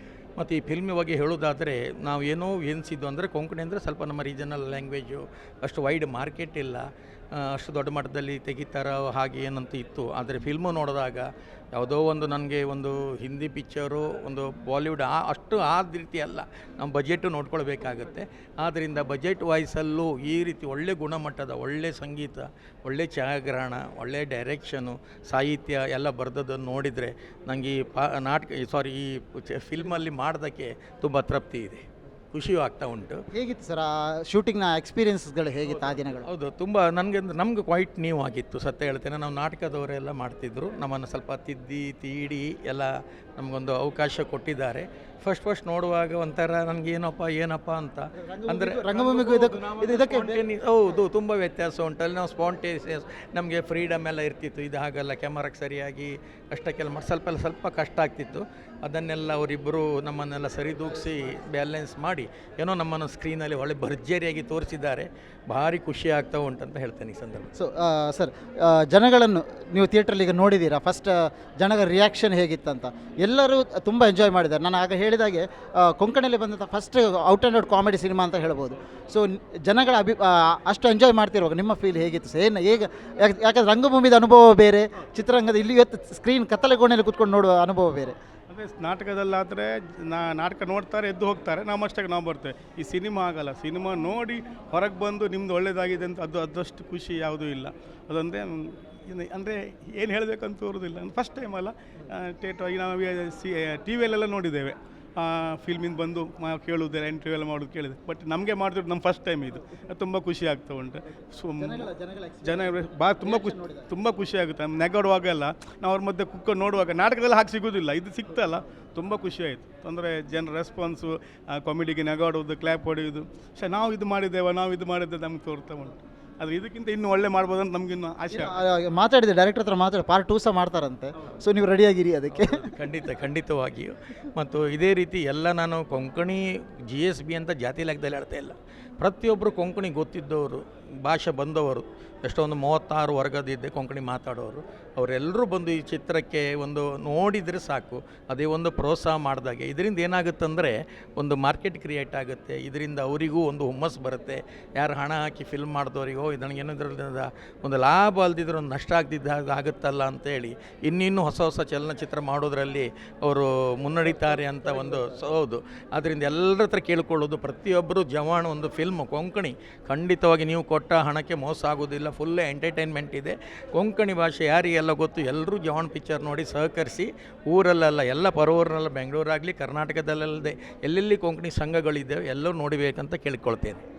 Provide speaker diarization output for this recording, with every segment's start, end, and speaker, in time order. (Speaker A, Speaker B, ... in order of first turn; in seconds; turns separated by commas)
Speaker A: 0.4-33.2, Speaker B: 33.3-36.3, Speaker A: 35.5-67.5, Speaker B: 48.2-50.4, Speaker B: 67.6-88.2, Speaker C: 88.5-111.9, Speaker B: 111.6-113.9, Speaker C: 112.4-128.5, Speaker B: 128.3-132.7, Speaker A: 132.4-183.8